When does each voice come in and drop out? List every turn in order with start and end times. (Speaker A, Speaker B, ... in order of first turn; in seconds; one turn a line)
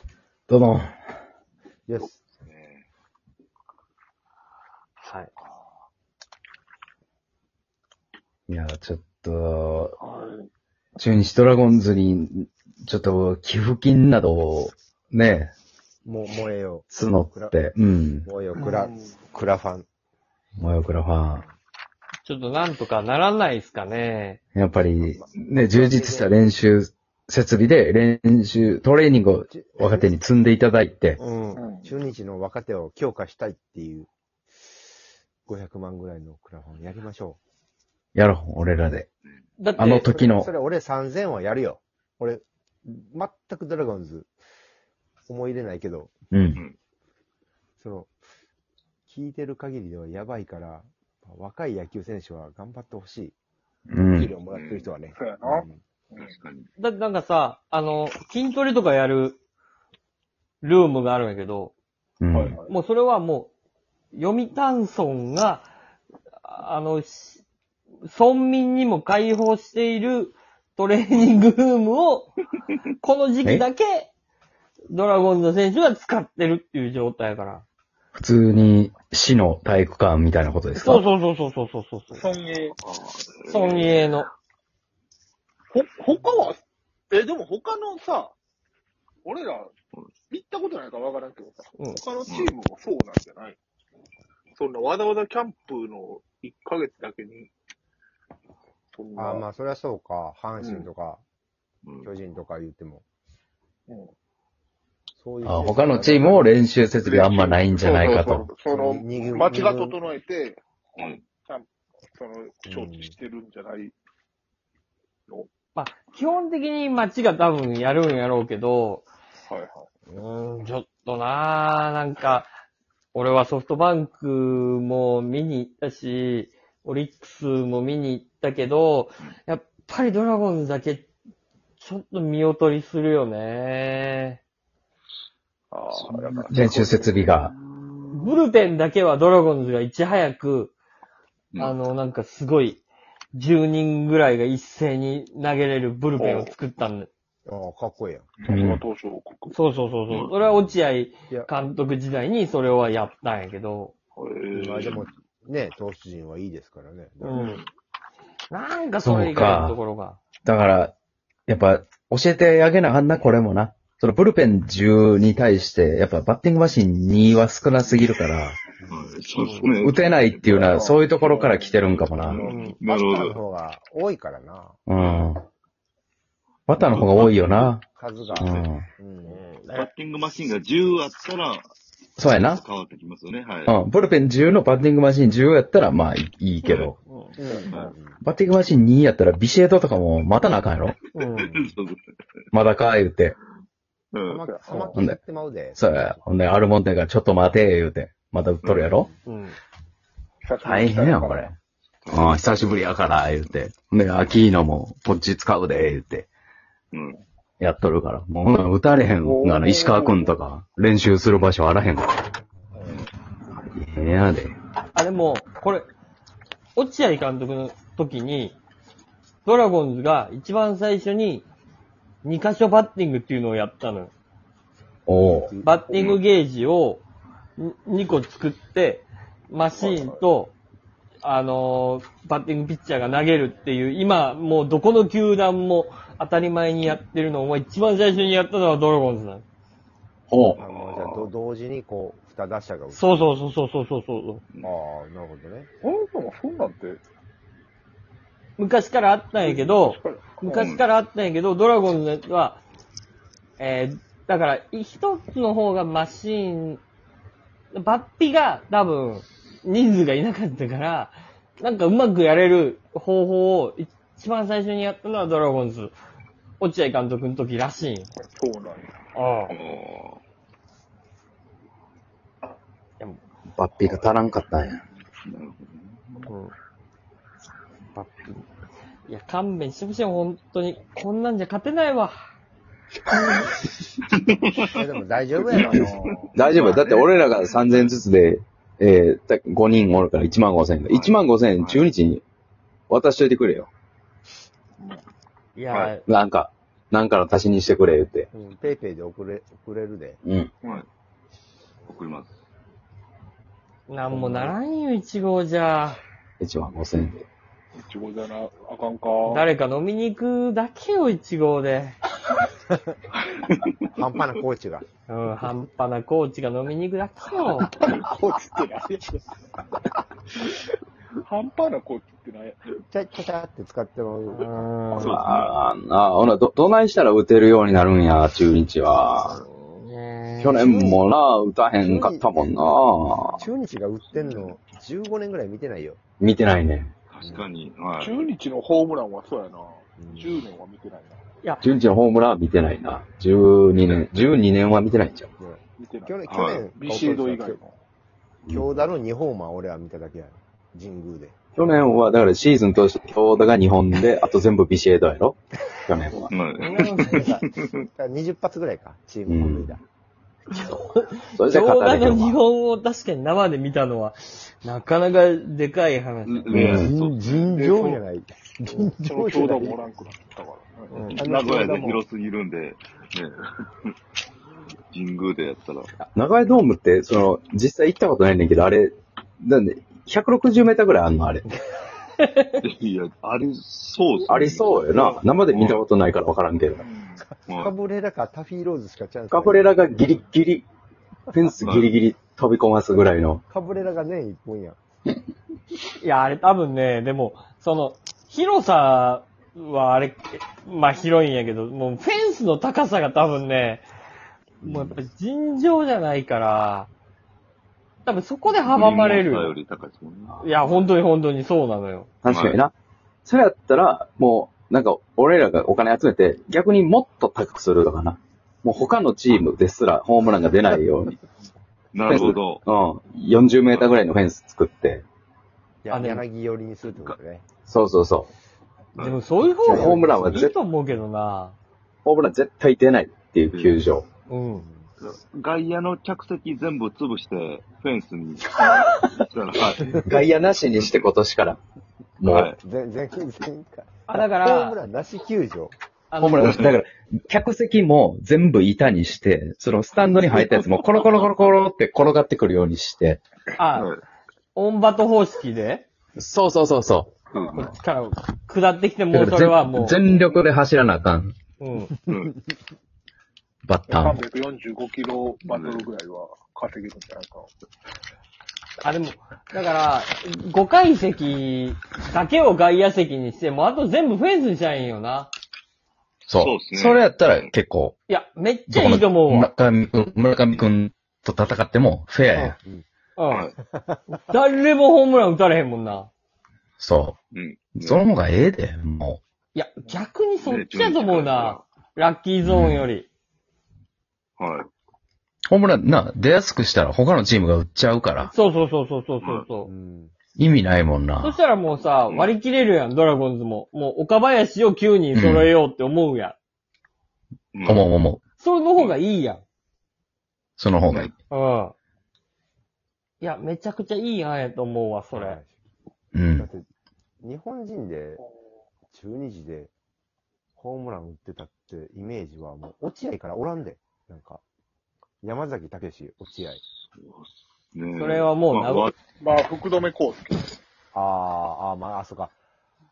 Speaker A: 0.5-0.9
Speaker B: 1.9-2.2
Speaker C: 2.1-2.9
Speaker D: 5.0-5.3
Speaker A: 8.5-9.9
Speaker E: 10.0-10.5
Speaker A: 11.0-15.5
Speaker B: 16.0-17.6
Speaker A: 16.9-18.3
Speaker B: 18.2-19.9
Speaker E: 18.5-19.2
Speaker A: 20.6-21.4
Speaker D: 22.2-24.4
Speaker A: 24.5-31.2
Speaker B: 25.0-26.4
Speaker B: 29.5-30.1
Speaker B: 31.2-34.1
Speaker E: 31.5-32.1
Speaker B: 35.5-37.4
Speaker A: 38.1-39.1
Speaker D: 39.6-40.1
Speaker A: 39.8-40.5
Speaker B: 39.9-44.3
Speaker B: 45.3-46.1
Speaker A: 46.3-46.6
Speaker B: 47.8-48.1
Speaker B: 49.1-53.3
Speaker A: 53.9-54.3
Speaker B: 54.1-55.8
Speaker C: 54.4-54.9
Speaker E: 55.1-56.3
Speaker C: 56.2-56.7
Speaker D: 56.8-59.4
Speaker D: 60.6-61.7
Speaker A: 62.2-62.6
Speaker E: 62.3-62.7
Speaker D: 62.6-63.5
Speaker D: 64.1-65.7
Speaker D: 66.4-67.4
Speaker D: 68.0-72.3
Speaker D: 73.0-74.1
Speaker D: 74.9-77.6
Speaker A: 78.1-81.0
Speaker D: 80.8-82.3
Speaker E: 82.1-82.8
Speaker C: 82.8-84.1
Speaker D: 83.5-84.3
Speaker E: 85.7-86.6
Speaker E: 87.1-88.3
Speaker E: 89.2-89.7
Speaker E: 90.3-93.6
Speaker C: 92.3-92.5
Speaker E: 94.5-97.5
Speaker E: 98.9-99.5
Speaker B: 99.2-101.2
Speaker E: 100.6-100.9
Speaker C: 101.8-102.1
Speaker B: 102.0-103.0
Speaker B: 105.2-106.5
Speaker A: 105.4-108.5
Speaker E: 107.0-110.6
Speaker B: 108.6-110.0
Speaker C: 111.0-111.2
Speaker E: 111.4-113.9
Speaker B: 112.6-113.2
Speaker D: 115.7-119.1
Speaker E: 119.4-119.9
Speaker D: 120.1-122.5
Speaker D: 123.1-131.1
Speaker D: 131.8-134.4
Speaker E: 135.7-137.3
Speaker C: 135.9-136.7
Speaker A: 136.5-137.5
Speaker C: 137.4-138.4
Speaker D: 138.1-140.7
Speaker D: 141.6-142.8
Speaker D: 143.3-147.1
Speaker E: 146.2-146.5
Speaker B: 147.4-148.5
Speaker E: 148.4-149.6
Speaker A: 148.5-148.8
Speaker D: 149.5-153.9
Speaker C: 150.1-150.4
Speaker E: 154.2-154.9
Speaker B: 154.5-157.6
Speaker D: 157.2-157.6
Speaker E: 157.3-157.6
Speaker D: 158.5-160.2
Speaker A: 159.0-159.8
Speaker A: 160.4-160.9
Speaker A: 161.5-168.6
Speaker B: 168.8-169.1
Speaker C: 168.9-170.9
Speaker D: 169.4-169.7
Speaker A: 169.8-172.5
Speaker E: 170.7-171.8
Speaker C: 171.9-173.4
Speaker E: 172.3-172.7
Speaker B: 172.4-174.8
Speaker A: 174.9-175.4
Speaker C: 174.9-175.3
Speaker A: 176.7-177.8
Speaker C: 176.8-177.7
Speaker B: 177.9-179.4
Speaker C: 178.2-178.7
Speaker A: 178.4-178.8
Speaker E: 179.4-179.8
Speaker C: 179.7-181.7
Speaker A: 182.2-182.6
Speaker C: 182.3-183.7
Speaker A: 183.7-186.9
Speaker C: 186.6-186.9
Speaker E: 187.1-187.7
Speaker B: 187.4-188.2
Speaker A: 188.2-191.0
Speaker D: 191.2-191.5
Speaker C: 191.2-192.0
Speaker A: 192.5-193.3
Speaker C: 194.1-194.4
Speaker B: 194.3-196.1
Speaker E: 194.5-195.0
Speaker A: 195.8-199.1
Speaker C: 198.6-198.9
Speaker D: 199.3-199.6
Speaker E: 200.4-201.5
Speaker A: 200.6-201.6
Speaker C: 202.0-202.7
Speaker A: 202.1-206.3
Speaker C: 206.9-207.2
Speaker A: 207.6-212.2
Speaker E: 209.2-210.3
Speaker A: 213.5-214.5
Speaker D: 214.9-215.9
Speaker D: 216.7-218.6
Speaker D: 219.4-221.4
Speaker D: 222.2-224.1
Speaker A: 225.1-225.5
Speaker B: 225.2-226.2
Speaker D: 225.6-227.0
Speaker D: 227.6-230.5
Speaker E: 229.8-230.2
Speaker D: 231.2-239.4
Speaker A: 240.3-240.6
Speaker C: 240.5-241.3
Speaker B: 240.6-243.3
Speaker D: 242.9-244.4
Speaker B: 244.6-245.7
Speaker E: 245.8-247.0
Speaker D: 248.6-252.6
Speaker E: 249.4-250.7
Speaker C: 250.5-250.8
Speaker D: 253.6-256.8
Speaker D: 257.7-265.9
Speaker D: 266.6-268.1
Speaker E: 268.2-268.9
Speaker D: 269.1-269.5
Speaker C: 269.5-270.2
Speaker A: 273.5-274.8
Speaker C: 275.2-276.3
Speaker D: 276.2-276.5
Speaker D: 277.9-278.4
Speaker D: 279.1-282.2
Speaker C: 284.1-284.7
Speaker B: 284.7-285.9
Speaker C: 285.5-288.0
Speaker A: 285.5-292.2
Speaker E: 285.5-286.8
Speaker C: 290.9-291.9
Speaker A: 292.9-293.7
Speaker E: 294.8-295.0
Speaker D: 295.5-296.0
Speaker A: 296.1-298.3
Speaker B: 298.3-300.2
Speaker A: 300.2-300.5
Speaker C: 301.9-302.3
Speaker D: 303.9-306.0
Speaker B: 304.1-304.6
Speaker A: 306.4-307.2
Speaker E: 307.7-309.4
Speaker D: 309.2-312.0
Speaker B: 313.9-314.8
Speaker D: 315.1-317.7
Speaker E: 317.6-319.2
Speaker E: 321.2-322.7
Speaker B: 322.9-324.7
Speaker D: 324.4-325.2
Speaker C: 324.9-325.6
Speaker A: 325.0-329.4
Speaker D: 329.2-330.9
Speaker A: 330.4-333.4
Speaker B: 331.8-332.5
Speaker B: 333.3-336.0
Speaker C: 334.1-334.5
Speaker A: 336.2-336.9
Speaker C: 337.1-338.2
Speaker B: 337.2-337.4
Speaker E: 338.0-341.2
Speaker B: 340.0-340.4
Speaker A: 341.6-345.3
Speaker B: 345.4-347.6
Speaker E: 345.8-346.2
Speaker C: 346.3-346.7
Speaker E: 346.7-347.7
Speaker A: 348.5-348.9
Speaker B: 348.5-351.4
Speaker A: 351.5-356.3
Speaker C: 356.3-357.7
Speaker D: 356.6-357.4
Speaker B: 357.1-359.8
Speaker A: 359.3-359.8
Speaker D: 360.5-366.6
Speaker A: 361.3-362.4
Speaker C: 366.2-367.4
Speaker B: 366.5-369.8
Speaker A: 366.6-366.9
Speaker E: 367.4-368.0
Speaker E: 368.6-372.0
Speaker B: 370.9-372.0
Speaker C: 371.1-373.9
Speaker C: 374.9-375.9
Speaker A: 376.1-381.4
Speaker D: 382.2-382.6
Speaker C: 382.6-385.9
Speaker A: 384.3-386.8
Speaker B: 386.8-390.1
Speaker E: 386.8-387.2
Speaker C: 387.5-387.7
Speaker A: 389.3-390.6
Speaker A: 391.3-393.4
Speaker C: 391.6-391.9
Speaker B: 393.5-394.8
Speaker D: 396.0-403.9
Speaker D: 404.6-406.9
Speaker D: 408.0-409.5
Speaker C: 408.4-410.7
Speaker D: 410.4-412.1
Speaker A: 412.2-412.7
Speaker C: 412.2-412.6
Speaker A: 413.2-421.2
Speaker C: 421.9-422.6
Speaker A: 422.0-425.0
Speaker C: 423.7-424.0
Speaker B: 425.8-427.5
Speaker D: 425.9-426.2
Speaker A: 427.6-428.3
Speaker C: 428.9-429.2
Speaker D: 428.9-431.6
Speaker B: 429.6-430.4
Speaker A: 429.6-430.5
Speaker A: 432.0-434.1
Speaker C: 433.5-433.8
Speaker D: 434.3-434.6
Speaker B: 434.6-434.9
Speaker C: 435.0-441.1
Speaker A: 440.0-441.6
Speaker A: 442.2-442.5
Speaker C: 442.2-442.6
Speaker B: 442.6-445.7
Speaker D: 444.1-444.8
Speaker D: 446.1-446.6
Speaker A: 446.2-453.2
Speaker C: 446.4-446.8
Speaker C: 450.2-451.5
Speaker D: 453.6-453.9
Speaker C: 453.7-454.0
Speaker D: 454.5-455.9
Speaker A: 456.2-457.1
Speaker C: 457.3-457.8
Speaker D: 457.5-460.1
Speaker A: 459.1-461.3
Speaker D: 461.6-461.9
Speaker C: 462.1-462.4
Speaker A: 463.6-464.2
Speaker E: 463.9-467.5
Speaker C: 465.4-465.9
Speaker D: 468.8-475.3
Speaker A: 476.3-477.9
Speaker C: 476.3-477.5
Speaker D: 478.1-479.5
Speaker A: 478.7-482.6
Speaker B: 482.6-482.8
Speaker D: 483.1-483.4
Speaker C: 483.3-483.6
Speaker B: 483.6-484.0
Speaker D: 484.1-486.1
Speaker A: 486.8-487.2
Speaker C: 487.3-488.0
Speaker A: 487.8-489.2
Speaker D: 489.5-493.1
Speaker C: 490.4-491.6
Speaker A: 492.4-492.9
Speaker C: 494.4-494.7
Speaker A: 495.5-498.3
Speaker D: 498.2-499.7
Speaker C: 499.2-499.5
Speaker B: 499.6-500.1
Speaker A: 500.4-501.4
Speaker D: 501.2-506.4
Speaker C: 502.1-502.3
Speaker A: 505.1-505.5
Speaker C: 507.5-507.9
Speaker A: 507.6-508.2
Speaker D: 508.4-509.4
Speaker A: 510.6-511.1
Speaker D: 511.3-511.7
Speaker D: 513.2-515.4
Speaker B: 515.1-515.6
Speaker A: 516.1-516.5
Speaker B: 516.4-516.6
Speaker B: 517.2-518.2
Speaker B: 518.9-519.7
Speaker B: 520.6-524.4
Speaker B: 525.2-526.6
Speaker C: 526.8-528.9
Speaker D: 527.9-528.9
Speaker E: 529.1-530.5
Speaker B: 530.9-532.4